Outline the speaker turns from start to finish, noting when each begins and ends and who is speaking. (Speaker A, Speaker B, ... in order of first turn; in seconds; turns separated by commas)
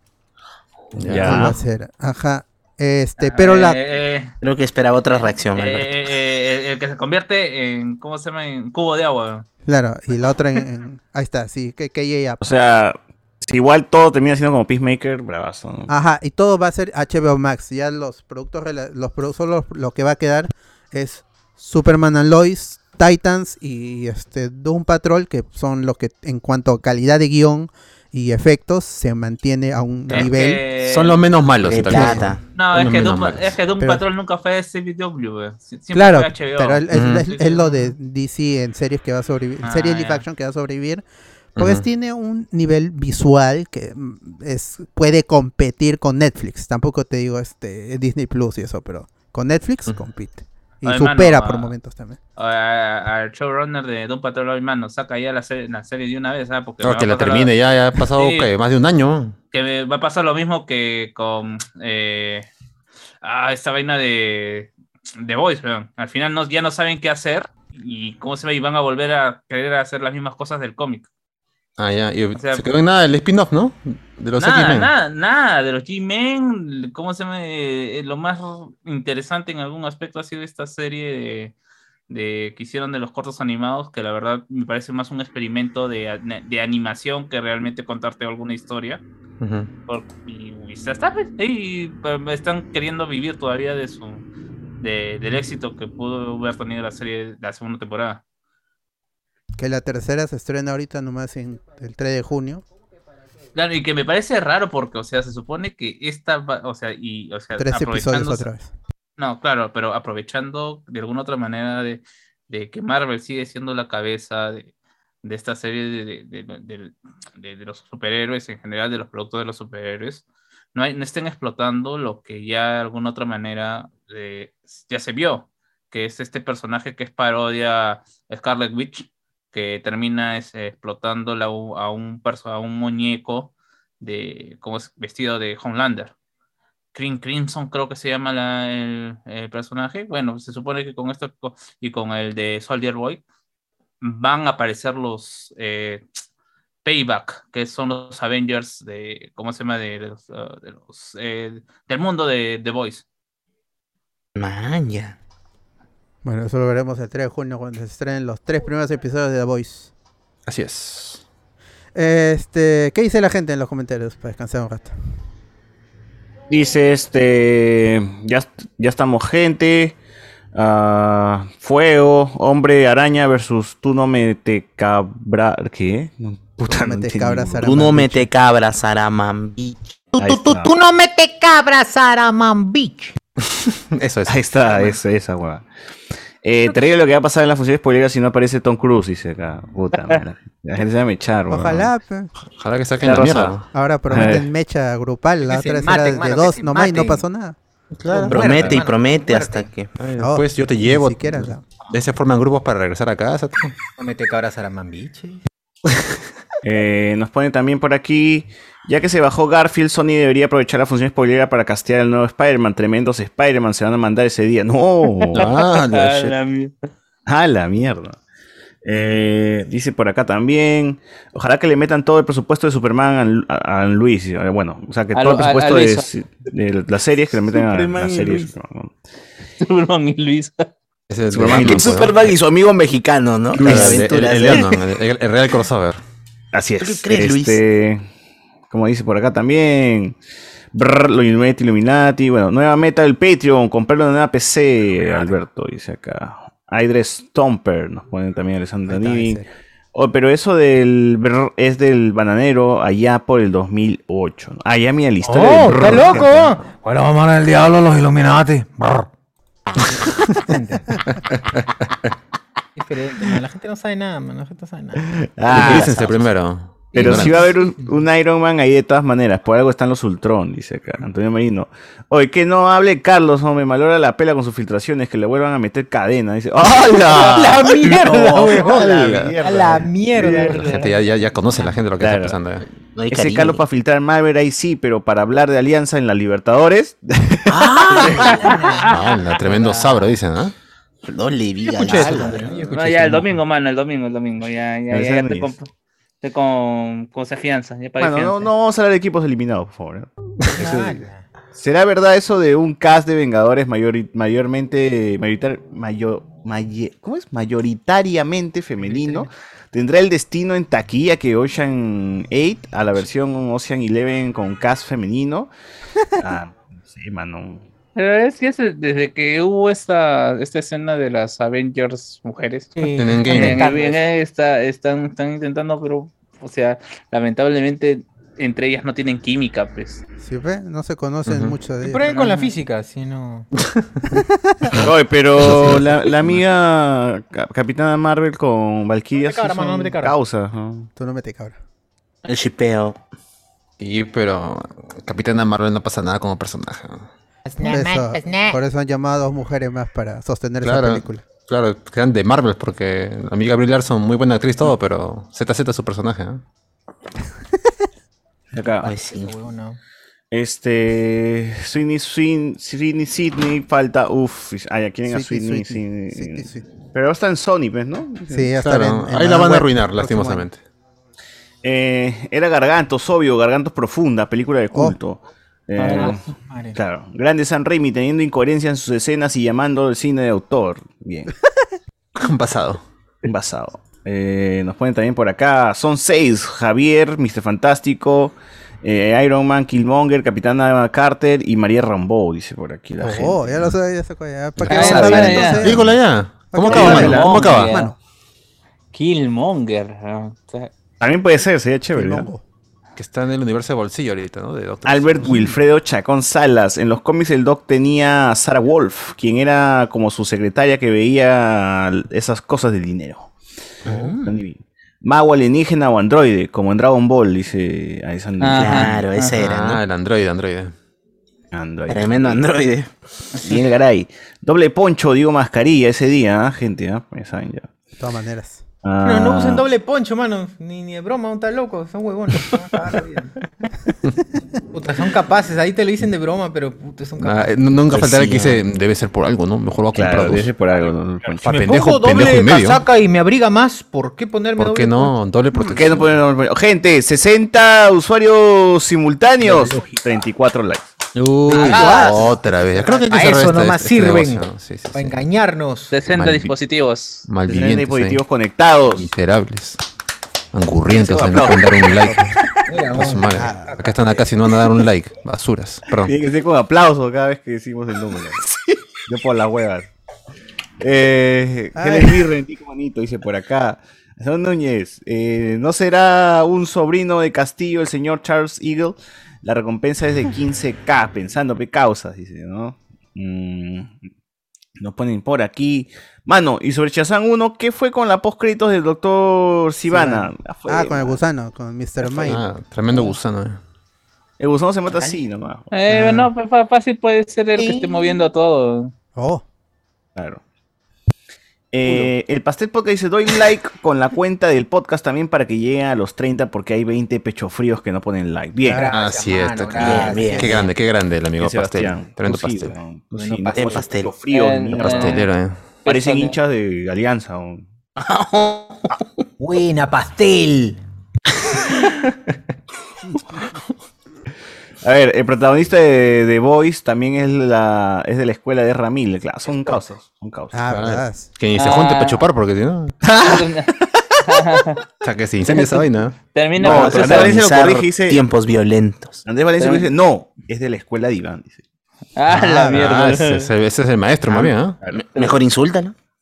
Speaker A: 0.9-1.5, Speaker B: 1.0-1.6, Speaker C: 1.2-3.8, Speaker D: 3.2-4.3, Speaker E: 4.4-5.9, Speaker D: 5.5-9.4, Speaker C: 9.7-12.4, Speaker B: 12.4-15.9, Speaker C: 15.9-30.6, Speaker D: 30.1-31.2, Speaker A: 30.8-33.5, Speaker E: 31.6-32.4, Speaker C: 31.9-32.3, Speaker D: 32.5-37.9, Speaker C: 35.9-41.0, Speaker A: 36.9-37.3, Speaker D: 39.6-40.2, Speaker C: 41.5-52.2, Speaker A: 41.6-41.8, Speaker D: 50.8-51.7, Speaker D: 52.4-57.5, Speaker A: 56.8-59.4, Speaker D: 58.1-58.5, Speaker D: 59.5-62.5, Speaker D: 63.2-71.1, Speaker A: 71.8-74.9, Speaker D: 72.3-72.6, Speaker D: 74.4-81.5, Speaker D: 82.1-89.0, Speaker A: 89.4-89.7, Speaker D: 89.9-94.2, Speaker D: 94.8-98.2, Speaker C: 99.5-102.6, Speaker D: 103.5-108.5, Speaker C: 107.6-108.7, Speaker D: 109.2-114.7, Speaker D: 115.2-136.1, Speaker D: 136.9-143.2, Speaker D: 144.0-146.0, Speaker D: 146.8-153.0, Speaker E: 154.3-155.2, Speaker C: 156.2-159.9, Speaker A: 160.5-161.2, Speaker C: 161.9-164.9, Speaker B: 166.5-169.9, Speaker B: 170.5-177.8, Speaker C: 176.6-178.3, Speaker E: 177.6-180.1, Speaker F: 180.1-183.1, Speaker B: 180.2-180.7, Speaker A: 183.7-184.4, Speaker B: 184.3-185.7, Speaker B: 186.4-191.9, Speaker C: 191.5-192.3, Speaker A: 192.5-194.2, Speaker B: 193.0-194.4, Speaker C: 193.7-197.6, Speaker F: 195.4-197.2, Speaker F: 198.1-199.7, Speaker E: 198.2-199.9, Speaker B: 198.3-198.8, Speaker A: 200.0-203.6, Speaker C: 200.2-201.6, Speaker F: 204.0-205.4, Speaker B: 206.6-215.4, Speaker D: 215.3-216.7, Speaker A: 215.3-216.3, Speaker B: 217.2-218.2, Speaker B: 218.8-228.9, Speaker D: 225.1-226.1, Speaker E: 227.7-228.4, Speaker D: 229.6-230.7, Speaker A: 231.1-232.3, Speaker B: 231.3-232.2, Speaker E: 231.4-234.7, Speaker B: 233.6-234.0, Speaker A: 233.6-236.0, Speaker B: 236.5-238.0, Speaker E: 236.8-237.6, Speaker B: 238.7-240.2, Speaker B: 240.7-249.4, Speaker C: 248.9-249.4, Speaker B: 249.9-256.4, Speaker F: 255.2-259.1, Speaker A: 255.8-256.3, Speaker F: 259.9-261.0, Speaker F: 262.8-265.9, Speaker B: 265.2-266.2, Speaker A: 265.5-267.5, Speaker B: 266.9-280.8, Speaker F: 267.0-267.9, Speaker F: 277.1-280.9, Speaker A: 278.8-279.3, Speaker A: 280.2-282.6, Speaker F: 281.5-281.8, Speaker B: 282.0-282.4, Speaker E: 282.9-283.6, Speaker B: 283.1-288.2, Speaker F: 287.5-289.9, Speaker D: 288.2-288.9, Speaker A: 288.9-290.5, Speaker E: 291.0-292.5, Speaker F: 291.7-293.2, Speaker B: 292.1-292.4, Speaker D: 292.7-295.7, Speaker B: 294.9-295.5, Speaker D: 296.2-298.5, Speaker B: 298.0-301.0, Speaker F: 300.5-301.2, Speaker B: 301.5-315.5, Speaker F: 308.8-309.2, Speaker B: 316.2-317.6, Speaker D: 317.9-330.0, Speaker F: 322.8-324.0, Speaker A: 323.0-323.6, Speaker C: 330.2-332.1, Speaker A: 331.2-331.6, Speaker F: 331.8-333.5, Speaker D: 332.1-332.5, Speaker C: 334.1-334.8, Speaker A: 334.7-336.4, Speaker B: 334.8-340.9, Speaker F: 339.2-340.1, Speaker C: 340.9-341.6, Speaker E: 342.2-343.0, Speaker A: 343.8-347.1, Speaker F: 347.4-348.6, Speaker C: 347.6-351.2, Speaker A: 350.6-356.4, Speaker B: 358.5-358.9, Speaker E: 358.8-359.3, Speaker F: 359.1-359.8, Speaker B: 360.3-368.5, Speaker C: 365.1-366.6, Speaker C: 368.3-370.5, Speaker A: 368.6-370.6, Speaker B: 371.6-376.2, Speaker C: 374.7-375.0, Speaker D: 375.8-376.1, Speaker F: 375.8-376.8, Speaker B: 376.7-381.3, Speaker A: 382.1-382.8, Speaker B: 383.2-393.7, Speaker C: 393.0-396.0, Speaker A: 394.6-397.7, Speaker D: 394.7-395.7, Speaker B: 394.7-395.1, Speaker C: 396.5-397.9, Speaker D: 396.7-397.9, Speaker B: 396.7-397.4, Speaker D: 398.9-400.7, Speaker B: 401.0-402.3, Speaker C: 401.9-402.4, Speaker A: 402.9-405.4, Speaker B: 404.8-413.3, Speaker E: 413.9-414.3, Speaker B: 414.0-419.0, Speaker D: 418.4-419.0, Speaker E: 418.5-419.8, Speaker A: 419.4-420.7, Speaker B: 421.5-422.4, Speaker E: 421.9-422.9, Speaker B: 423.4-427.7, Speaker C: 428.0-428.6, Speaker B: 428.8-429.7, Speaker F: 429.0-433.3, Speaker F: 434.7-437.7, Speaker A: 437.2-440.5, Speaker E: 437.9-438.6, Speaker B: 439.9-441.4, Speaker A: 441.4-442.8, Speaker F: 441.4-445.1, Speaker A: 444.6-446.2, Speaker C: 445.5-445.8, Speaker B: 445.7-450.9, Speaker F: 449.4-449.7, Speaker A: 451.1-455.2, Speaker F: 451.5-455.9, Speaker D: 451.5-452.1, Speaker C: 451.8-452.1, Speaker D: 455.9-457.2, Speaker A: 456.1-456.5, Speaker A: 457.3-458.2, Speaker B: 457.5-459.1, Speaker A: 458.9-459.8, Speaker A: 460.5-462.3, Speaker B: 460.9-462.4, Speaker F: 462.6-464.2, Speaker A: 462.9-466.1, Speaker C: 463.3-463.8, Speaker B: 466.0-468.4, Speaker B: 469.1-469.9, Speaker B: 470.8-483.9, Speaker C: 471.8-472.3, Speaker B: 484.8-491.2, Speaker C: 489.9-492.4, Speaker A: 492.1-493.6, Speaker B: 494.4-495.7, Speaker D: 495.7-498.9, Speaker C: 495.9-496.3, Speaker C: 499.1-499.4, Speaker B: 500.1-500.4, Speaker B: 501.7-508.9, Speaker F: 508.6-510.5, Speaker A: 508.9-512.8, Speaker E: 509.8-510.7, Speaker C: 510.1-510.5, Speaker B: 511.4-515.2, Speaker F: 513.1-513.8, Speaker E: 513.5-514.1, Speaker D: 514.3-515.3, Speaker A: 514.8-515.6, Speaker D: 515.8-516.4, Speaker B: 515.8-517.6, Speaker E: 518.0-518.9, Speaker F: 519.4-520.8, Speaker B: 524.8-530.6, Speaker C: 530.5-531.3, Speaker A: 530.7-533.0, Speaker D: 531.5-532.2, Speaker B: 533.0-534.2, Speaker D: 533.2-533.7, Speaker D: 534.2-534.8, Speaker A: 535.0-536.1, Speaker D: 536.3-537.3, Speaker B: 536.6-538.2, Speaker E: 536.6-539.2, Speaker B: 539.2-541.6, Speaker D: 539.6-539.9, Speaker D: 542.1-543.5, Speaker C: 542.3-542.8, Speaker A: 542.6-544.8, Speaker E: 544.3-545.9